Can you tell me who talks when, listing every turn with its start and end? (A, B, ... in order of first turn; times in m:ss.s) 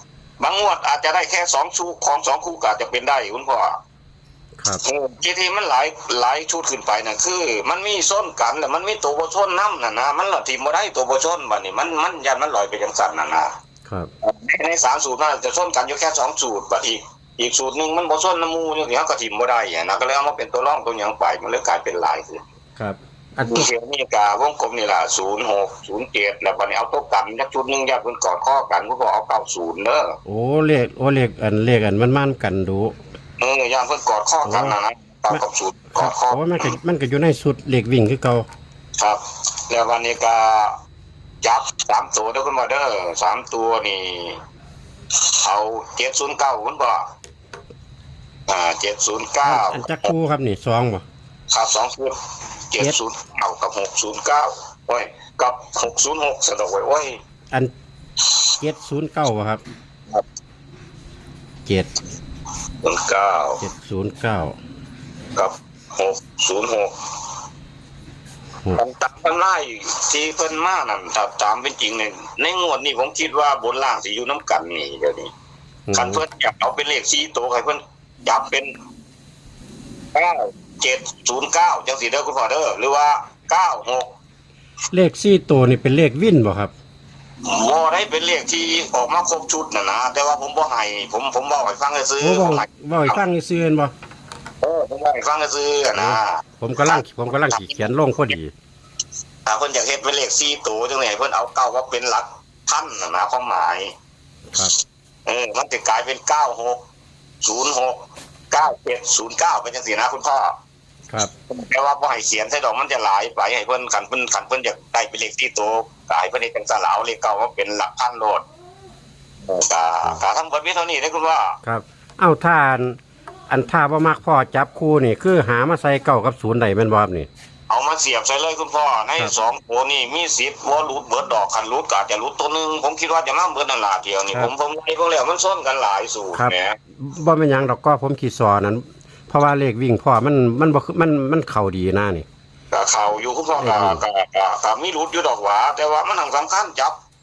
0:00.4-0:03.8 A
0:04.8-0:13.5 A
0:13.8-0:14.1 B
0:14.2-0:22.4 A
0:22.8-0:23.7 B
0:23.4-0:30.1 A
0:30.2-0:33.0 B
0:33.4-0:36.8 A
0:34.4-0:34.8 B
0:35.9-0:38.5 B
0:39.0-0:40.7 A
0:41.4-0:44.4 A
0:45.4-0:47.0 A
0:48.5-0:50.1 A
0:49.4-0:51.0 B
0:51.5-0:52.2 A
0:52.7-0:57.2 A
0:58.6-0:59.6 B
1:01.6-1:02.0 B
1:02.8-1:03.6 A
1:03.6-1:04.6 B
1:05.4-1:07.0 A
1:08.7-1:15.3 A
1:15.9-1:16.2 B
1:15.9-1:18.7 A
1:20.1-1:24.1 A
1:24.9-1:26.7 B
1:27.4-1:33.2 A
1:32.2-1:33.9 B
1:34.6-1:37.8 A
1:35.9-1:38.5 B
1:39.4-1:43.9 A
1:45.2-1:46.8 A
1:47.4-1:48.0 A
1:48.5-1:50.5 A
1:51.5-1:58.4 A
1:59.4-2:01.6 A
2:01.6-2:03.0 B
2:03.5-2:07.3 B
2:07.7-2:16.8 A
2:16.3-2:22.2 B
2:22.7-2:27.0 A
2:23.6-2:24.0 B